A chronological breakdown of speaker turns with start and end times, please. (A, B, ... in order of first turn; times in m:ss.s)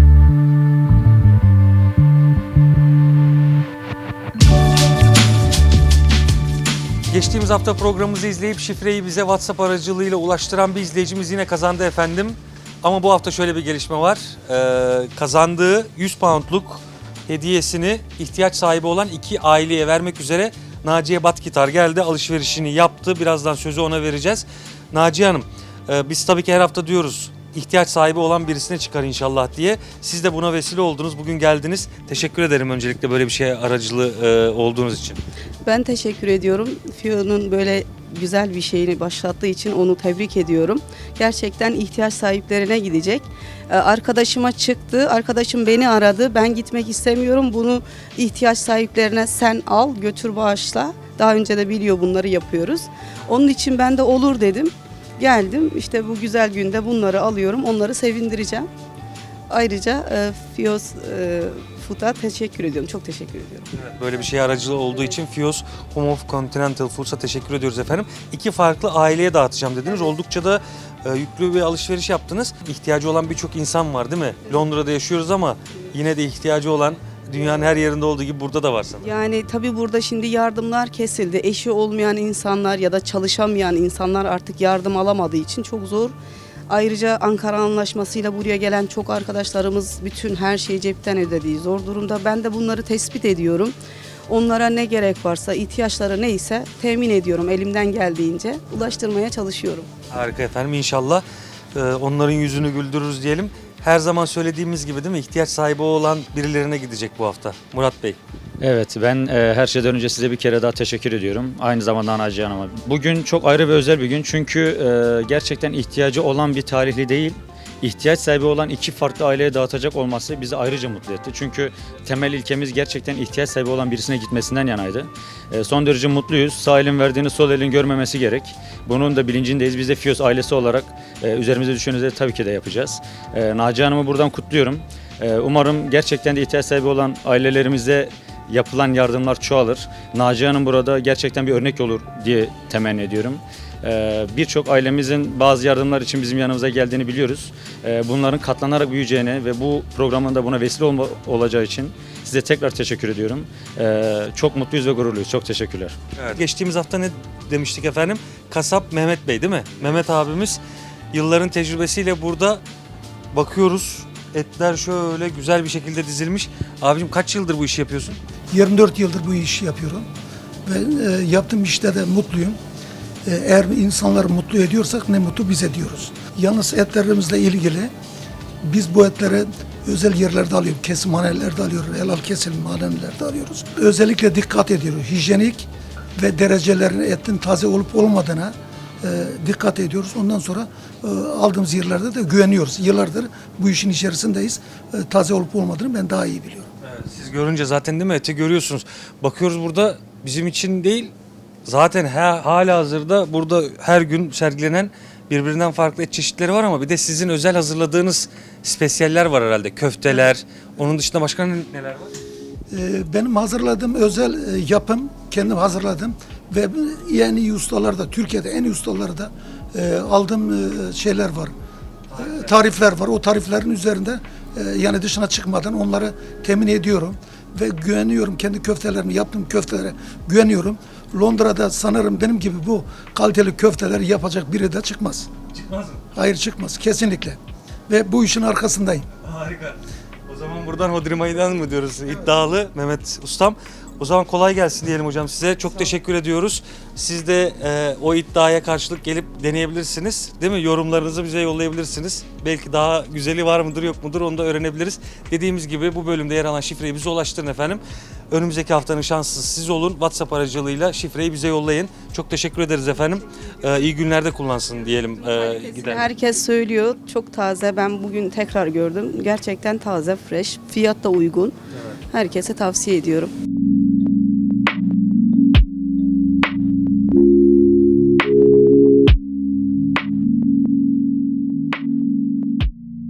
0:07.1-0:35.2 A
0:35.6-0:58.7 B
0:59.5-1:03.7 B
1:03.7-1:19.1 A
1:19.0-1:26.2 B
1:26.7-1:33.7 B
1:34.3-1:39.9 B
1:40.1-1:48.2 A
1:48.6-2:36.0 C
2:36.2-2:40.6 A
2:41.1-2:42.6 A
2:43.3-2:48.2 A
2:48.5-2:50.1 D
2:50.6-2:52.6 D
2:53.2-2:57.9 D
2:58.6-3:16.7 D
3:16.8-3:21.1 A
3:21.6-3:32.1 A
3:32.7-3:41.5 D
3:42.2-3:55.3 D
3:55.5-3:56.0 A
3:56.1-3:59.1 D
3:59.2-4:26.1 A
4:25.8-4:31.5 B
4:32.1-4:33.3 B